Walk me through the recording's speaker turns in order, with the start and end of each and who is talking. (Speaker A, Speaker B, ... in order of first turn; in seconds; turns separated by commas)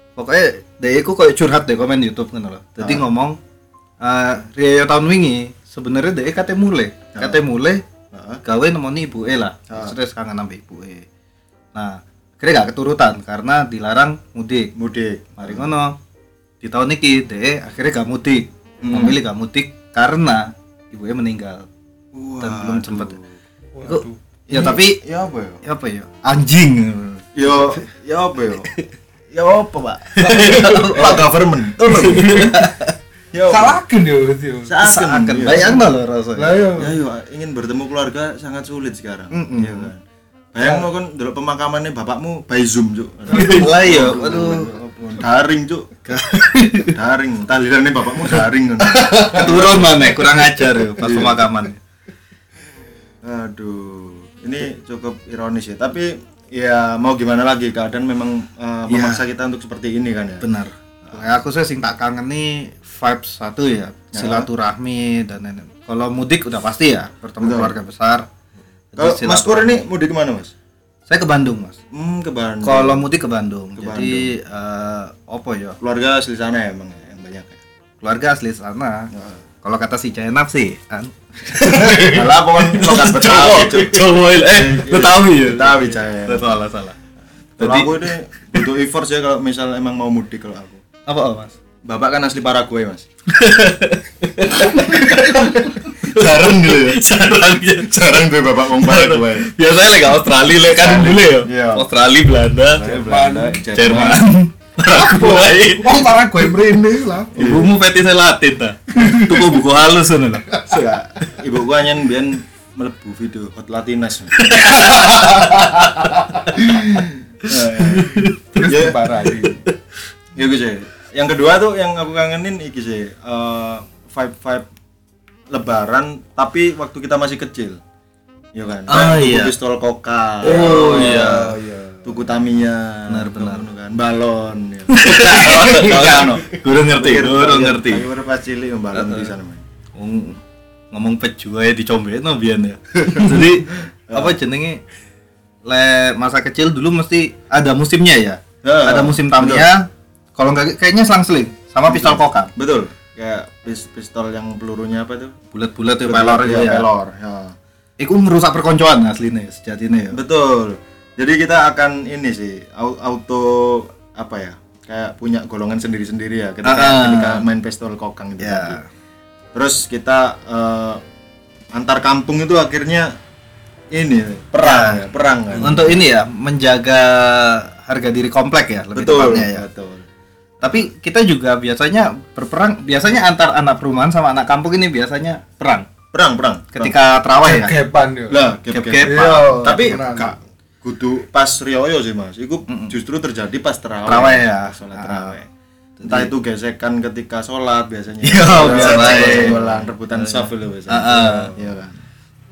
Speaker A: 0.2-3.4, Speaker B: 2.8-3.1, Speaker A: 4.0-7.8, Speaker B: 7.1-7.4, Speaker B: 8.1-8.4, Speaker A: 8.4-11.1, Speaker B: 9.7-9.9, Speaker A: 11.7-14.7, Speaker B: 14.8-15.7, Speaker A: 15.4-15.9, Speaker A: 16.6-21.7, Speaker B: 18.8-19.2, Speaker B: 22.1-23.2, Speaker A: 22.4-23.2, Speaker C: 23.8-24.1, Speaker A: 23.9-25.0, Speaker B: 24.5-25.6, Speaker A: 25.6-27.8, Speaker B: 27.4-28.7, Speaker B: 29.3-32.5, Speaker A: 30.1-31.3, Speaker C: 30.2-31.2, Speaker A: 31.8-32.9, Speaker C: 31.9-32.7, Speaker B: 33.3-33.8, Speaker C: 33.5-34.8, Speaker B: 34.7-35.8, Speaker A: 34.8-36.7, Speaker C: 35.5-35.8, Speaker C: 36.4-37.0, Speaker B: 36.8-40.0, Speaker A: 39.3-39.9, Speaker B: 40.5-46.0, Speaker A: 43.3-44.7, Speaker A: 46.1-47.0, Speaker B: 46.8-50.3, Speaker A: 48.4-51.8, Speaker B: 50.9-51.5, Speaker B: 53.2-60.5, Speaker A: 58.9-59.2, Speaker A: 60.4-68.2, Speaker B: 61.0-61.4, Speaker B: 64.1-64.5, Speaker B: 67.4-67.8, Speaker A: 68.9-69.8, Speaker B: 69.0-70.5, Speaker A: 71.1-71.8, Speaker B: 71.9-73.1, Speaker A: 72.6-75.8, Speaker B: 73.8-74.3, Speaker B: 75.8-77.6, Speaker A: 78.0-79.1, Speaker B: 79.1-79.4, Speaker A: 79.6-87.0, Speaker B: 81.8-86.5, Speaker A: 87.6-88.0, Speaker B: 87.6-90.8, Speaker A: 91.1-91.5, Speaker B: 91.9-93.0, Speaker A: 93.3-98.0, Speaker B: 95.4-97.0, Speaker B: 97.8-99.5, Speaker A: 98.8-102.9, Speaker B: 100.8-101.9, Speaker B: 102.6-104.3, Speaker C: 102.8-103.6, Speaker A: 103.7-106.1, Speaker C: 104.9-107.4, Speaker B: 107.3-107.7, Speaker A: 107.4-110.5, Speaker C: 108.9-109.6, Speaker B: 110.7-114.9, Speaker A: 114.4-116.7, Speaker C: 114.8-115.1, Speaker B: 116.6-119.0, Speaker A: 117.5-118.3, Speaker C: 118.2-119.6, Speaker B: 120.4-124.7, Speaker B: 125.5-127.8, Speaker B: 128.6-131.5, Speaker A: 128.9-129.5, Speaker C: 130.4-132.2, Speaker A: 130.4-131.6, Speaker B: 132.1-139.6, Speaker A: 133.1-133.7, Speaker A: 134.9-138.1, Speaker A: 138.9-139.3, Speaker A: 139.9-140.4, Speaker A: 140.9-144.8, Speaker B: 143.1-143.4, Speaker B: 144.1-144.4, Speaker A: 145.7-152.5, Speaker B: 148.6-149.7, Speaker B: 151.9-155.3, Speaker A: 155.5-156.9, Speaker B: 156.1-157.6, Speaker A: 158.0-160.2, Speaker B: 160.1-168.8, Speaker A: 166.6-167.4, Speaker A: 168.4-168.8, Speaker B: 169.5-171.0, Speaker B: 171.7-173.1, Speaker B: 173.9-176.0, Speaker A: 174.6-175.1, Speaker A: 175.6-179.7, Speaker B: 178.9-180.1, Speaker A: 180.6-185.9, Speaker B: 186.1-186.9, Speaker A: 186.7-187.8, Speaker C: 187.4-190.3, Speaker B: 188.3-195.5, Speaker A: 188.7-190.0, Speaker A: 192.7-193.0, Speaker A: 194.1-195.4, Speaker A: 196.0-196.3, Speaker B: 196.0-201.9, Speaker A: 198.2-201.6